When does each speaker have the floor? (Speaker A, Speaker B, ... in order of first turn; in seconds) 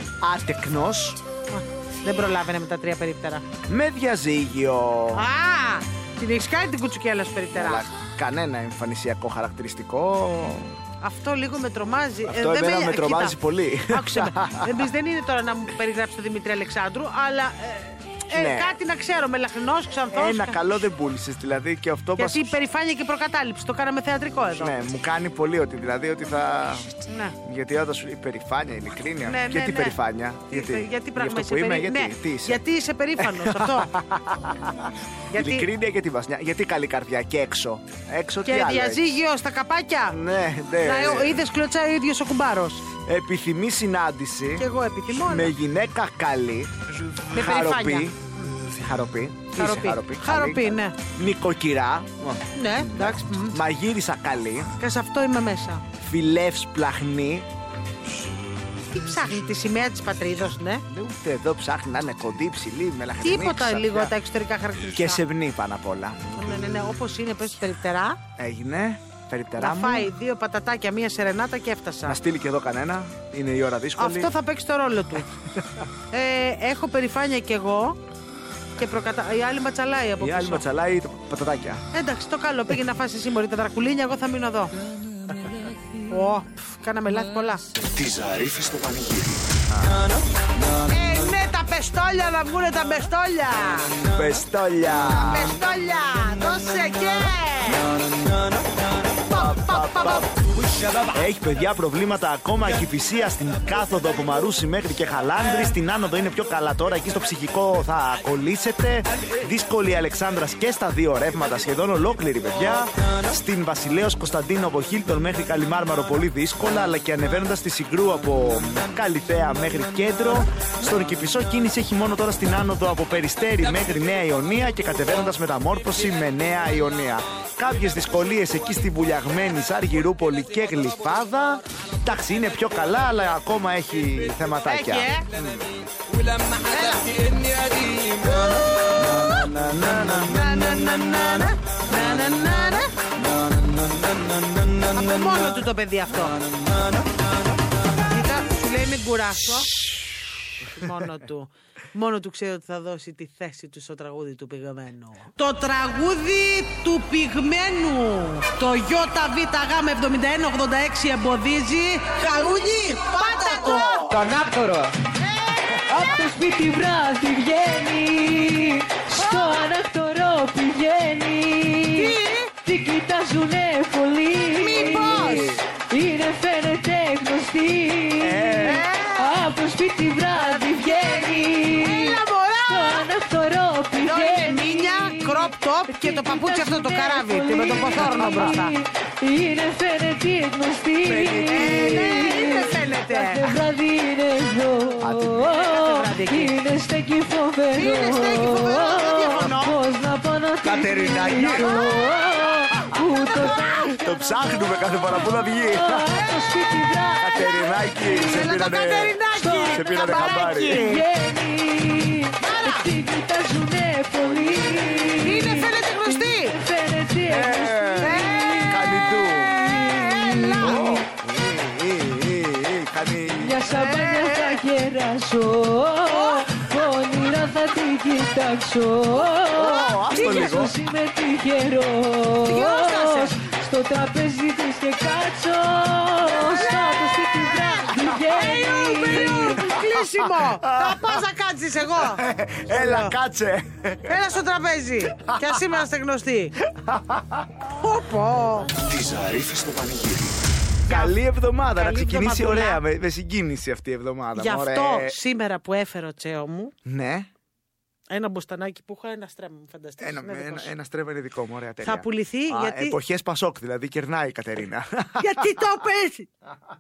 Speaker A: 0.2-1.2, 3.7-5.3, 7.5-10.7, 12.3-14.8, 18.3-18.7, 20.1-22.6, 24.6-32.6, 33.2-39.2, 40.1-41.4, 43.0-46.7, 47.3-54.7, 56.0-57.5, 60.9-64.1, 64.9-66.4, 68.4-70.1, 72.1-74.3, 75.6-75.8, 80.2-81.8, 89.7-90.0, 94.1-95.6, 99.3-100.3, 101.1-135.7, 138.3-140.8, 174.9-175.6, 178.2-178.8, 188.2-188.5, 191.1-192.3, 195.0-195.5, 200.6-202.0, 203.9-206.1, 207.2-211.0, 214.3-215.2, 217.3-219.7, 220.6-224.0, 229.4-230.8, 239.3-241.3, 241.9-244.2, 246.7-247.5, 250.9-255.2, 256.9-257.3, 260.0-265.4
Speaker B: 1.5-3.4, 5.1-7.9, 11.0-20.6, 22.2-24.8, 27.1-27.4, 29.2-30.0, 30.5-33.9, 35.3-35.7, 38.5-40.2, 40.8-42.8, 44.6-45.5, 47.3-48.5, 49.5-51.0, 52.5-53.6, 54.8-55.8, 58.9-60.8, 63.2-65.2, 66.3-68.2, 69.6-72.2, 74.0-75.3, 76.1-78.0, 78.8-80.7, 81.9-84.7, 86.1-87.7, 90.9-94.0, 95.0-97.9, 99.2-100.3, 134.7-135.3, 136.6-137.3, 139.0-142.9, 144.9-146.4, 148.1-149.8, 150.6-164.7, 165.4-165.8, 169.2-169.6, 171.9-172.5, 174.6-175.6, 178.6-179.4, 181.8-183.1, 184.0-188.8, 191.5-193.6, 195.5-196.5, 197.8-199.8, 208.2-211.0, 212.4-212.9, 215.2-216.6, 218.0-218.7, 219.7-221.0, 223.8-224.4, 226.1-226.5, 230.1-230.6, 232.4-233.4, 236.3-243.1, 244.1-246.6, 247.7-248.7, 250.9-251.2, 251.8-252.8, 254.3-256.7, 258.1-260.7, 261.8-263.0, 265.2-266.3
Speaker C: 87.9-89.6, 248.8-250.4
Speaker D: 165.9-204.2, 205.7-208.2, 209.3-221.0, 223.4-239.7